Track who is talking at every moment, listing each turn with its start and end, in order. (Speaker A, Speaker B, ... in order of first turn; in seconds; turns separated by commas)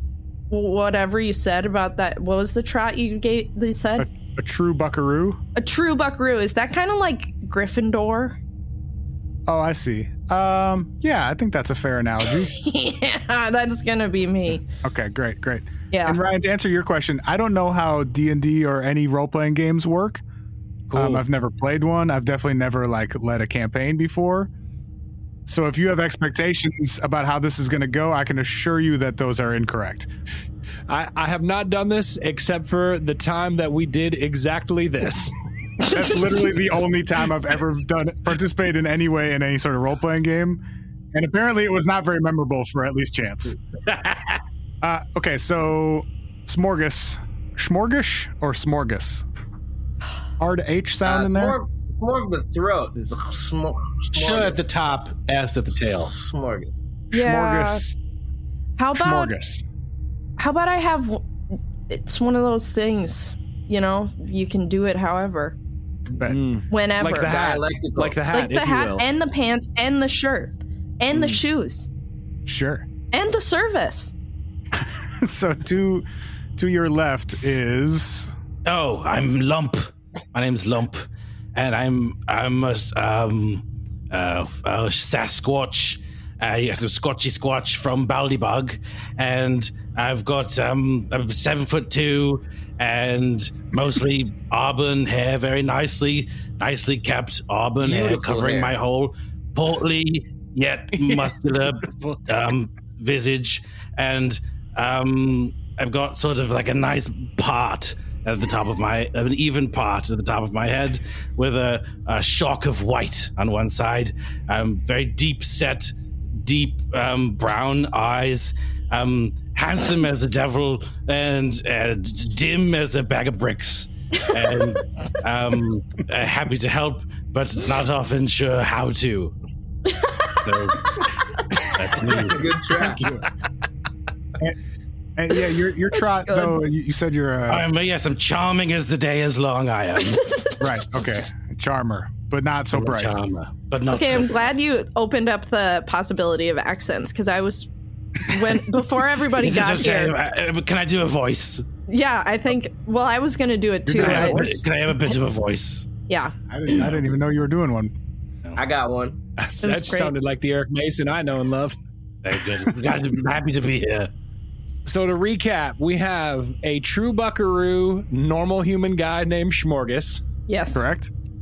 Speaker A: 0.5-4.1, Speaker B: 4.0-5.4, Speaker A: 5.5-8.4, Speaker B: 9.5-12.5, Speaker A: 12.5-14.6, Speaker B: 14.8-20.2, Speaker A: 15.9-16.2, Speaker C: 20.9-21.2, Speaker B: 20.9-24.5, Speaker B: 25.4-30.1, Speaker D: 30.9-35.3, Speaker B: 35.9-40.6, Speaker B: 41.1-43.6, Speaker C: 43.9-44.4, Speaker B: 44.8-49.2, Speaker B: 50.4-51.6, Speaker E: 51.0-54.6, Speaker C: 54.1-56.1, Speaker E: 56.0-56.8, Speaker B: 57.1-58.0, Speaker A: 57.1-57.8, Speaker A: 58.8-59.3, Speaker B: 58.9-59.6, Speaker A: 60.4-65.5, Speaker D: 66.2-69.0, Speaker A: 66.7-67.3, Speaker E: 67.1-68.2, Speaker A: 68.3-71.9, Speaker D: 71.1-71.4, Speaker B: 72.5-72.9, Speaker A: 73.1-74.1, Speaker B: 74.7-78.3, Speaker C: 78.6-129.3, Speaker E: 97.8-98.7, Speaker D: 100.9-101.3, Speaker D: 101.8-102.2, Speaker C: 130.4-130.9, Speaker C: 131.6-132.5, Speaker E: 132.1-133.1, Speaker B: 132.8-133.3, Speaker B: 135.2-137.7, Speaker A: 136.0-136.6, Speaker C: 137.5-140.4, Speaker B: 140.6-143.1, Speaker C: 142.7-144.5, Speaker A: 143.9-147.7, Speaker A: 148.2-150.2, Speaker C: 149.3-151.6, Speaker A: 151.9-155.2, Speaker C: 153.9-155.9, Speaker B: 154.0-154.5, Speaker D: 154.0-154.4, Speaker A: 156.1-156.3, Speaker B: 156.5-157.9, Speaker E: 158.6-159.2, Speaker D: 159.4-161.8, Speaker A: 159.6-160.1, Speaker C: 162.2-164.1, Speaker D: 164.8-170.2, Speaker A: 170.5-170.8, Speaker B: 170.7-171.1